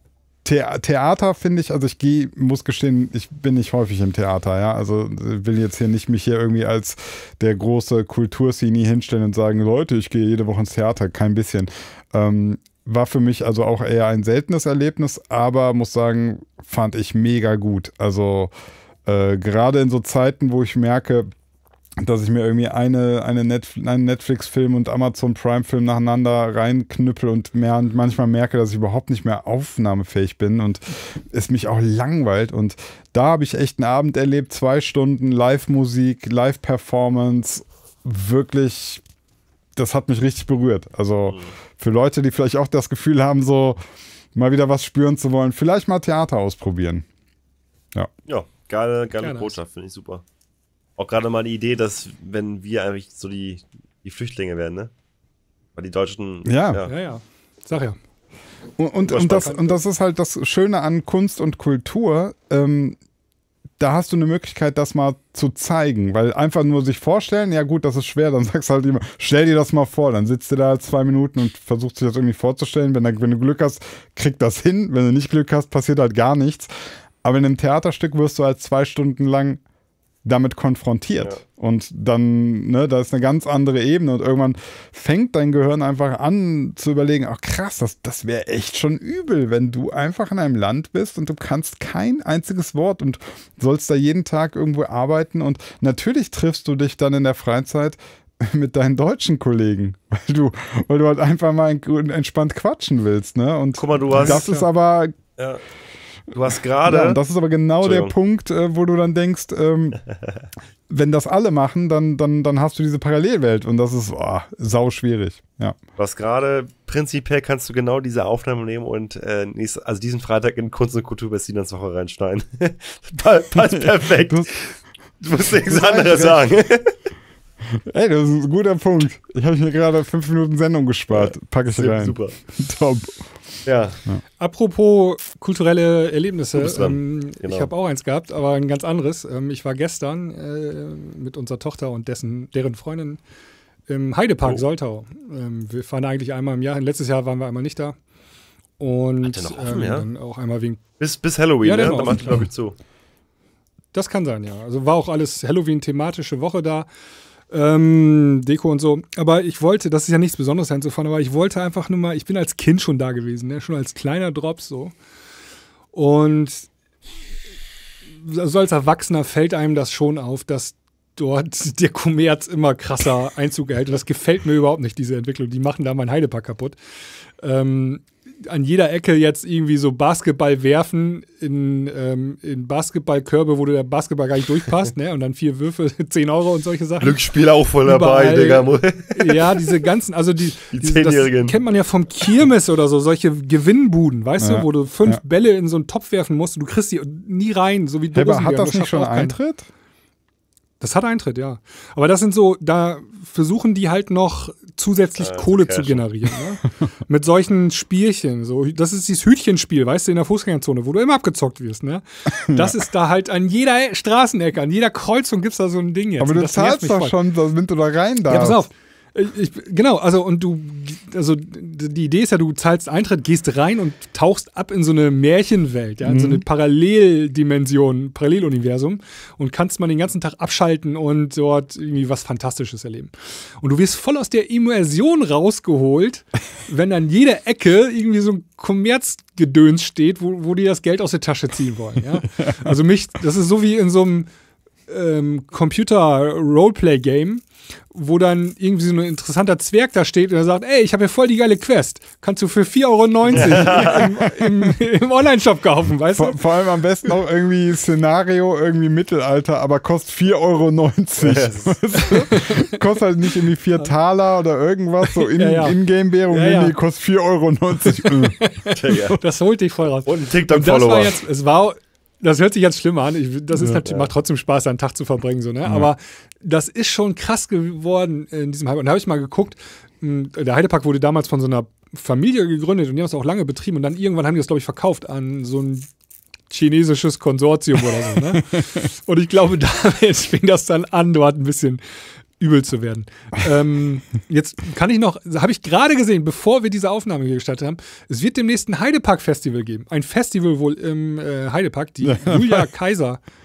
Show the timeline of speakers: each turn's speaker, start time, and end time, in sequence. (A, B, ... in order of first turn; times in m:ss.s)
0:00.4-0:18.5 A
0:19.1-0:21.3 A
0:22.0-0:39.0 A
0:39.8-0:43.8 A
0:44.3-0:47.1 A
0:48.3-0:50.2 B
0:49.2-0:49.6 C
0:51.0-0:54.9 B
0:55.8-0:56.9 B
0:56.4-0:56.8 A
0:56.9-0:58.0 C
0:58.8-1:03.0 A
0:59.1-0:59.7 B
0:59.2-0:59.6 C
1:03.8-1:16.7 A
1:17.2-1:19.6 A
1:20.2-1:45.2 A
1:43.8-1:44.4 B
1:44.1-1:44.7 C
1:46.3-1:47.2 B
1:46.9-1:50.0 A
1:47.8-1:48.1 B
1:50.9-1:55.8 A
1:56.0-2:06.9 B
2:03.6-2:04.5 A
2:05.6-2:06.4 A
2:07.8-2:13.4 A
2:11.1-2:12.4 B
2:13.6-2:14.0 B
2:14.4-2:23.2 C
2:16.6-2:17.7 B
2:23.9-2:28.0 C
2:28.8-2:30.8 C
2:29.2-2:30.1 B
2:31.0-2:32.8 B
2:31.6-2:32.4 C
2:33.9-2:36.9 C
2:37.5-2:44.9 C
2:45.9-2:46.7 C
2:48.1-2:56.8 C
2:57.4-3:07.2 C
3:07.0-3:09.8 B
3:07.8-3:19.4 C
3:10.7-3:11.6 B
3:14.4-3:15.2 A
3:18.1-3:19.7 A
3:20.8-3:37.2 C
3:25.2-3:26.1 B
3:32.4-3:32.8 A
3:36.2-3:38.6 A
3:38.3-4:04.3 C
3:46.0-3:46.4 A
4:02.4-4:02.7 A
4:04.9-4:16.5 C
4:13.3-4:14.7 A
4:13.3-4:14.0 B
4:16.2-4:29.2 A
4:21.2-4:21.8 B
4:22.3-4:22.7 C
4:25.0-4:25.8 C
4:26.3-4:26.7 C
4:28.0-4:45.9 C
4:28.7-4:29.2 B
4:30.1-4:31.2 B
4:33.7-4:34.1 B
4:35.6-4:35.9 A
4:46.5-4:51.8 C
4:52.4-5:03.2 C
5:02.0-5:02.6 A